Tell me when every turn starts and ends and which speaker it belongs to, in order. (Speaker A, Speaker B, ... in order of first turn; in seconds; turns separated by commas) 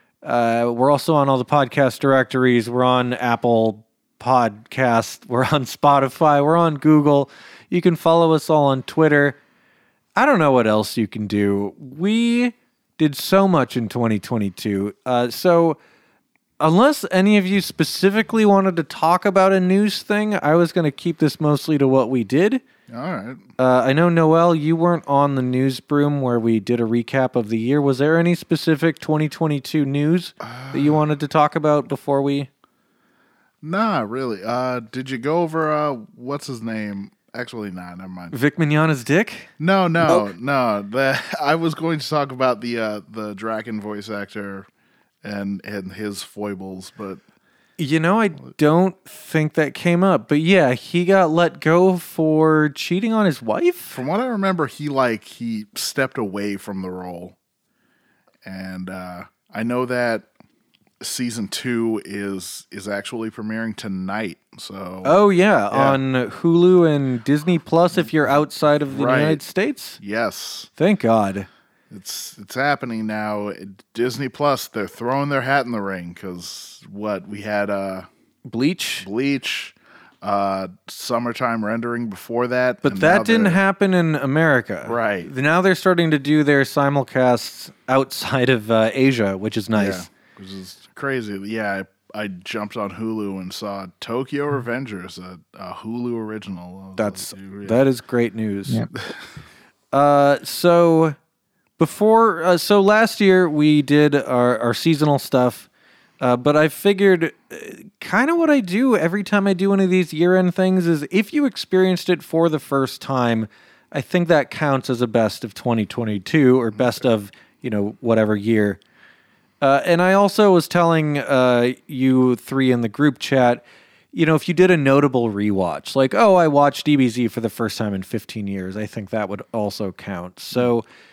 Speaker A: 0.2-9.4, Speaker A: 10.2-15.8, Speaker A: 16.6-22.6, Speaker B: 22.9-23.4, Speaker A: 23.6-32.5, Speaker B: 30.4-31.0, Speaker B: 33.6-38.3, Speaker A: 38.3-39.5, Speaker B: 39.6-44.7, Speaker B: 45.2-47.2, Speaker A: 47.8-54.0, Speaker B: 53.9-57.4, Speaker B: 58.4-60.3, Speaker B: 61.0-65.1, Speaker A: 65.0-70.0, Speaker B: 65.7-66.0, Speaker B: 68.9-69.4, Speaker B: 70.0-70.7, Speaker A: 70.8-71.5, Speaker B: 71.9-78.1, Speaker A: 78.5-79.1, Speaker B: 79.0-83.6, Speaker A: 82.8-90.1, Speaker B: 84.8-85.3, Speaker B: 89.7-97.8, Speaker A: 97.0-98.8, Speaker A: 99.9-101.2, Speaker A: 101.8-105.7, Speaker A: 106.2-118.8, Speaker B: 116.7-117.0, Speaker A: 119.6-130.8